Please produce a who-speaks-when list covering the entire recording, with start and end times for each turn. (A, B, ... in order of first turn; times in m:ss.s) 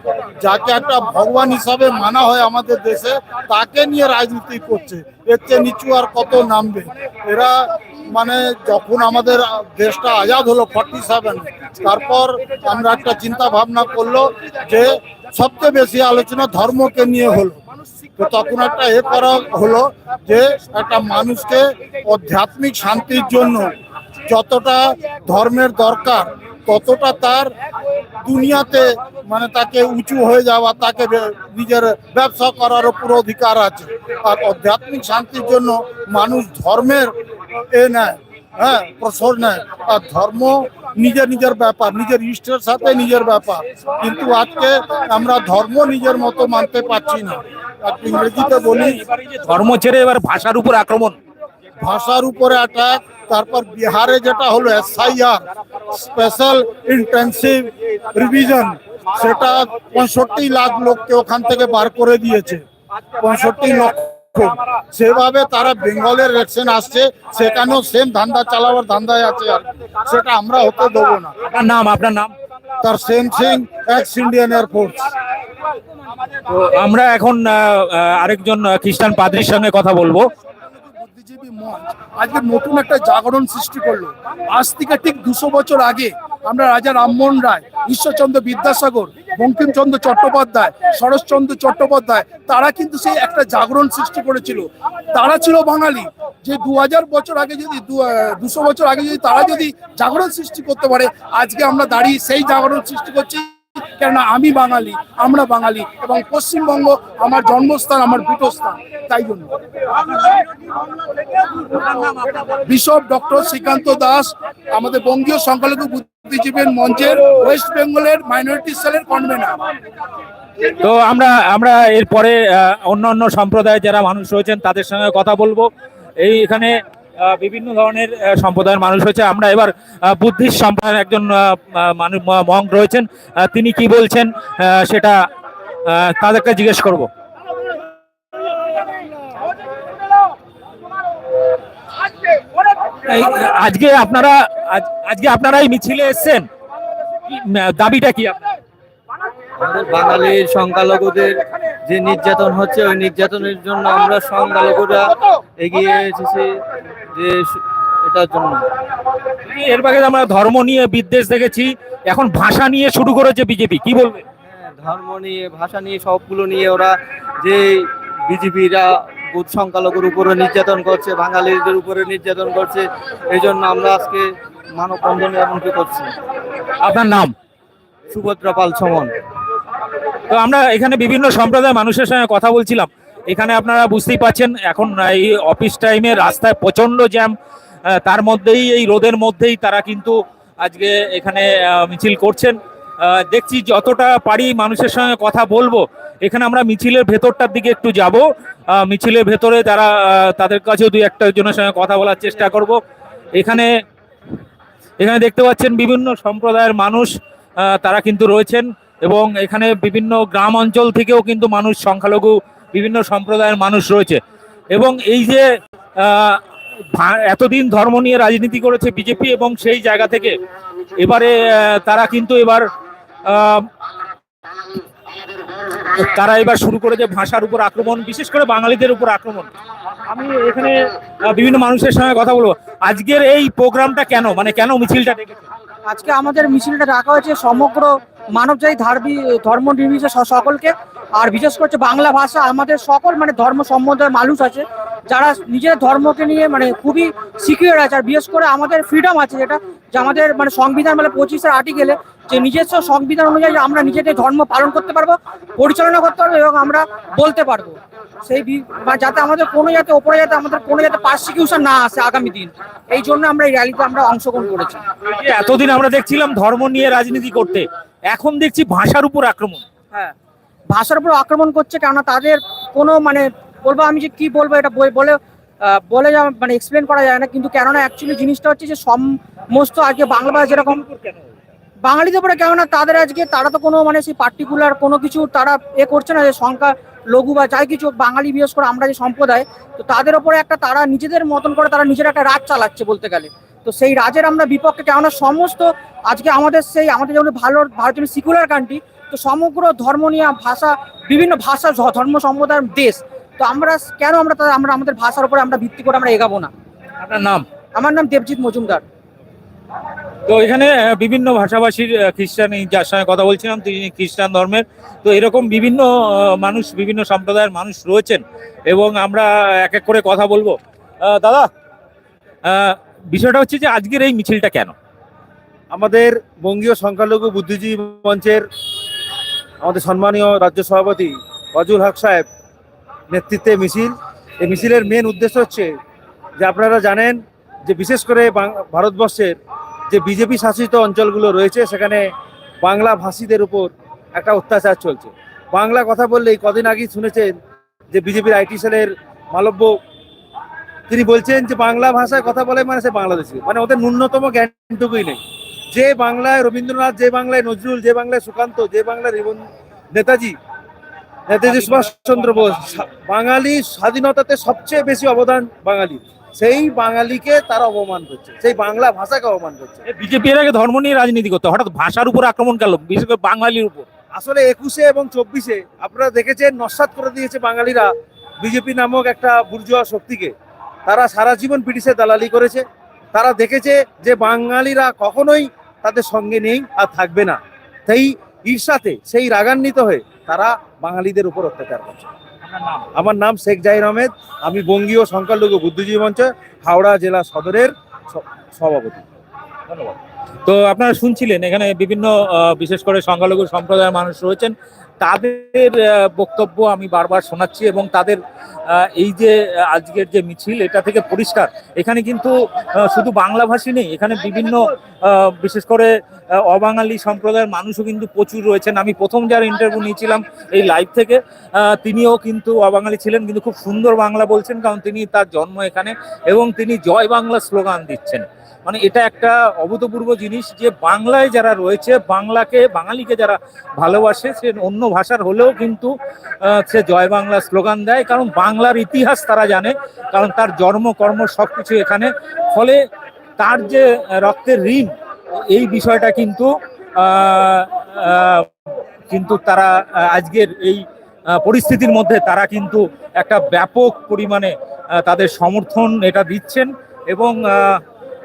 0:00.4-0:17.6 A
0:18.2-0:23.8 A
0:24.3-0:27.5 A
0:28.2-0:37.1 A
0:37.7-0:49.0 A
0:48.7-0:51.2 B
0:51.8-1:02.6 A
1:03.2-1:11.3 A
1:11.5-1:12.3 B
1:12.8-1:15.1 A
1:16.5-1:20.2 B
1:20.9-1:49.5 C
1:51.9-1:52.4 B
1:52.8-1:59.6 C
2:00.6-2:05.7 B
2:06.2-2:15.1 B
2:15.9-2:17.1 B
2:22.9-2:26.5 B
2:27.3-2:28.4 B
2:29.6-2:31.3 D
2:31.9-2:35.0 D
2:35.7-2:36.4 D
2:38.1-2:38.6 D
2:39.5-2:44.2 B
2:44.6-2:46.9 D
2:48.3-2:48.8 D
2:49.4-2:52.8 D
2:53.4-2:54.2 D
2:54.8-2:56.0 D
2:56.8-2:57.3 B
2:58.1-2:59.1 D
3:00.3-3:07.3 B
3:07.9-3:18.2 B
3:18.8-3:22.8 B
3:23.4-3:23.7 B
3:25.0-3:27.1 B
3:27.6-3:34.2 B
3:34.7-3:35.4 B
3:36.0-3:36.4 B
3:36.9-3:40.3 B
3:41.0-3:42.6 B
3:43.3-3:43.6 B
3:45.9-3:49.5 B
3:50.1-3:50.7 B
3:51.3-3:55.5 B
3:55.9-4:24.8 E
4:25.0-4:29.6 B
4:30.7-4:35.2 E
4:35.8-4:40.8 E
4:40.4-4:41.3 B
4:41.8-5:06.5 E
5:07.0-5:07.4 B
5:07.8-5:08.8 E
5:10.3-5:21.5 B
5:22.4-5:24.7 B
5:25.7-5:28.4 F
5:29.6-5:32.2 F
5:33.1-5:35.7 F
5:36.4-5:39.4 F
5:39.9-5:42.0 F
5:42.6-5:47.3 F
5:47.9-5:49.7 F
5:50.9-5:55.2 F
5:55.7-6:00.4 F
6:01.3-6:09.8 F
6:01.4-6:02.8 B
6:09.9-6:13.9 B
6:14.1-6:20.3 F
6:20.9-6:32.1 F
6:32.5-6:32.9 B
6:33.0-6:39.0 F
6:39.7-6:48.2 B
6:48.7-6:55.9 B
6:56.4-7:15.9 B
7:16.6-7:22.8 B
7:23.4-7:24.9 B
7:25.5-7:28.5 B
7:29.1-7:30.8 B
7:31.4-7:37.8 B